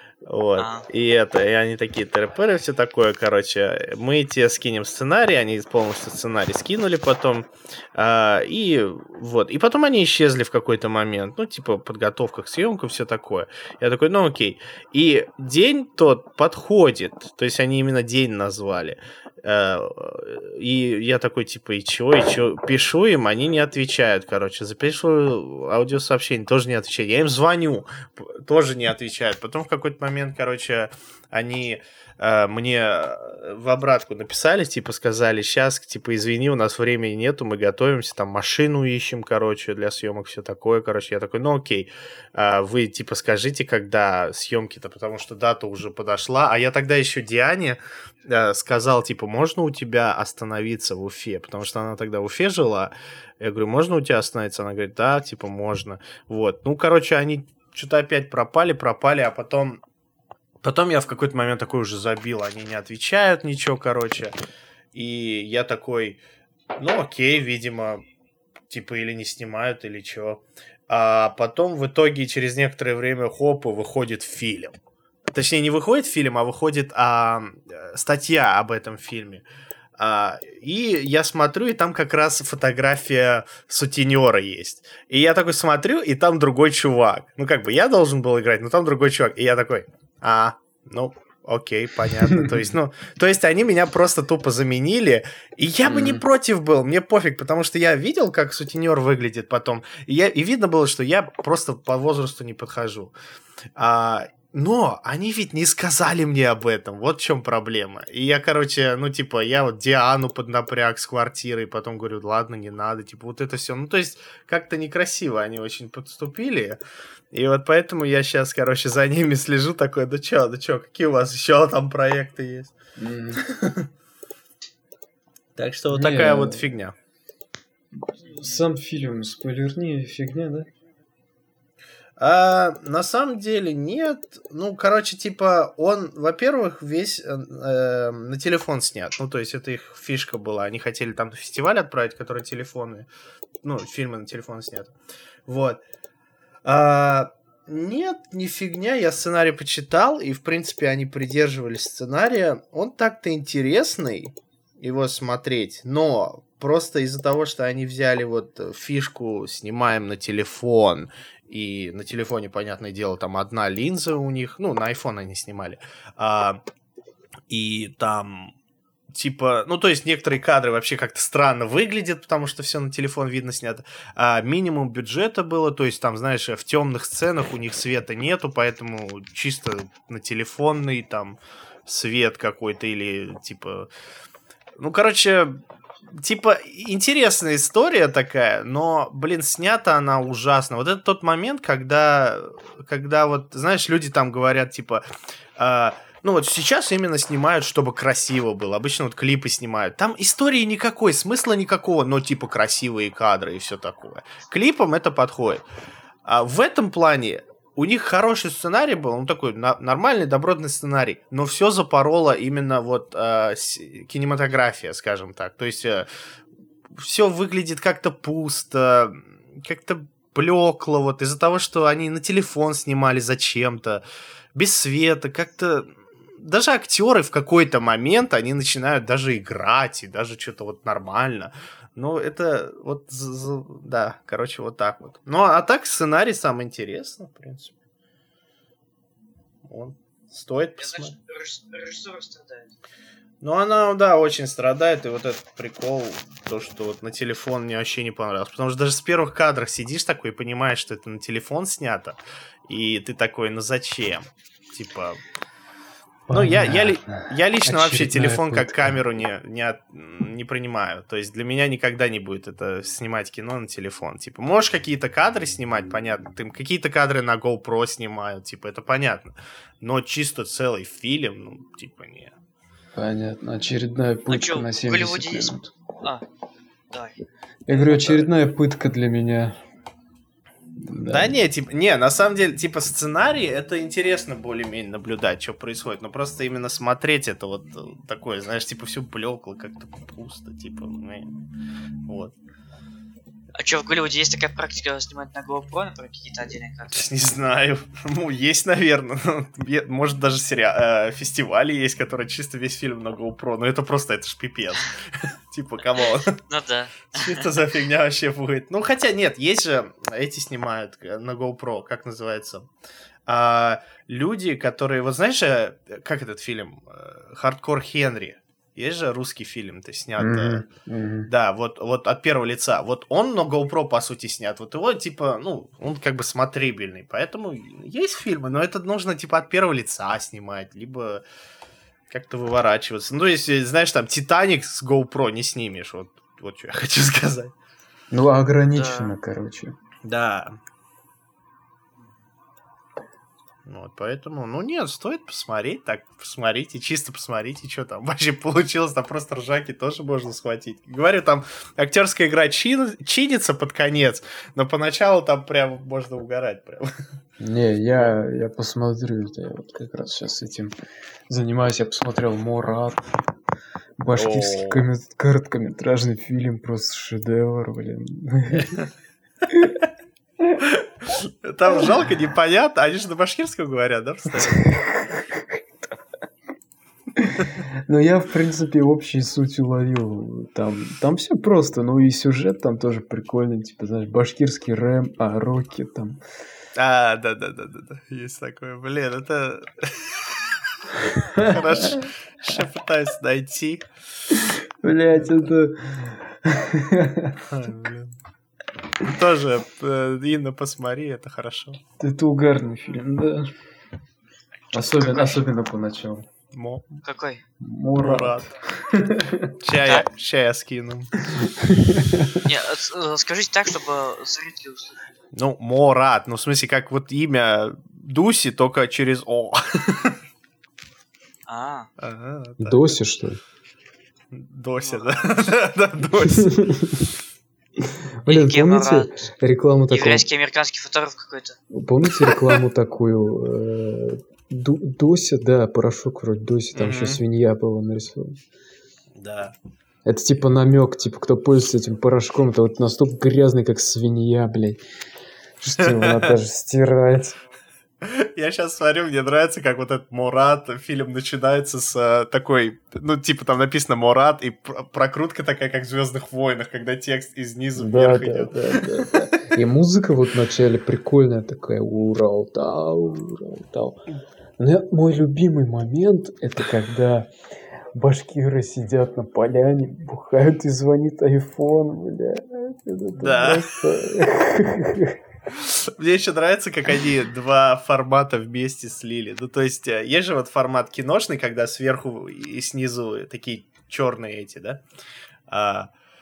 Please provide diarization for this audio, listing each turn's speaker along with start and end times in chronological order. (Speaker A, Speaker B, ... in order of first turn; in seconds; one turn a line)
Speaker A: 0.2-59.8
Speaker B: 0.6-0.9
Speaker A: 60.6-64.4
Speaker A: 64.9-66.2
Speaker A: 66.8-68.0
Speaker A: 68.7-74.8
Speaker A: 75.3-79.4
Speaker A: 80.0-103.1
Speaker C: 92.2-92.7
Speaker C: 95.9-96.2
Speaker A: 103.8-116.8
Speaker A: 117.3-122.8
Speaker C: 123.0-123.4
Speaker A: 123.3-123.9
Speaker A: 125.6-126.9
Speaker C: 125.9-126.7
Speaker C: 128.0-130.7
Speaker A: 132.2-143.1
Speaker A: 143.6-144.9
Speaker A: 145.5-145.8
Speaker A: 146.7-166.6
Speaker A: 167.5-168.5
Speaker A: 169.1-183.9
Speaker A: 184.8-195.0
Speaker A: 195.6-205.6
Speaker A: 206.2-216.1
Speaker A: 216.9-224.0
Speaker A: 224.6-237.7
Speaker A: 239.7-241.1
Speaker B: 240.8-242.7
Speaker A: 243.4-255.2
Speaker C: 256.3-259.0
Speaker A: 256.3-272.4
Speaker C: 272.9-275.7
Speaker B: 274.3-276.2
Speaker C: 277.7-279.6
Speaker A: 277.8-278.3
Speaker C: 280.8-281.4
Speaker A: 281.1-291.3
Speaker A: 292.1-292.4
Speaker B: 293.6-297.0
Speaker A: 296.9-306.4
Speaker B: 306.0-307.5
Speaker A: 307.1-312.7
Speaker A: 313.3-320.6
Speaker C: 320.2-321.3
Speaker A: 321.3-331.2
Speaker A: 332.1-337.5
Speaker C: 338.1-339.8
Speaker B: 338.7-339.2
Speaker A: 340.1-340.6
Speaker A: 343.7-356.9
Speaker C: 357.4-360.7
Speaker C: 361.3-363.2
Speaker C: 364.0-368.8
Speaker A: 364.1-364.8
Speaker A: 368.6-368.9
Speaker C: 369.5-369.8
Speaker A: 370.6-374.7
Speaker C: 374.4-375.6
Speaker C: 377.2-386.2
Speaker A: 386.8-394.3
Speaker C: 391.3-392.5
Speaker C: 394.3-397.4
Speaker A: 397.4-398.1
Speaker A: 399.0-401.8
Speaker C: 402.0-403.5
Speaker C: 404.7-406.3
Speaker B: 404.8-405.4
Speaker A: 406.5-407.0
Speaker B: 407.0-407.4
Speaker C: 407.6-409.6
Speaker A: 408.0-408.5
Speaker A: 409.6-411.2
Speaker C: 411.3-412.5
Speaker B: 412.4-415.0
Speaker A: 415.3-420.2
Speaker B: 421.5-421.9
Speaker A: 422.0-422.9
Speaker C: 422.6-423.4
Speaker A: 424.3-426.7
Speaker B: 424.8-425.5
Speaker C: 426.3-427.1
Speaker C: 427.8-430.2
Speaker B: 428.3-429.3
Speaker B: 429.9-431.6
Speaker C: 431.7-438.4
Speaker A: 436.8-437.2
Speaker A: 439.1-439.6
Speaker C: 440.1-444.8
Speaker C: 445.6-447.4
Speaker A: 445.8-446.4
Speaker A: 448.0-459.3
Speaker C: 457.8-464.0
Speaker C: 464.6-467.3
Speaker C: 467.9-475.2
Speaker A: 473.2-474.3
Speaker A: 475.5-484.8
Speaker A: 485.5-485.9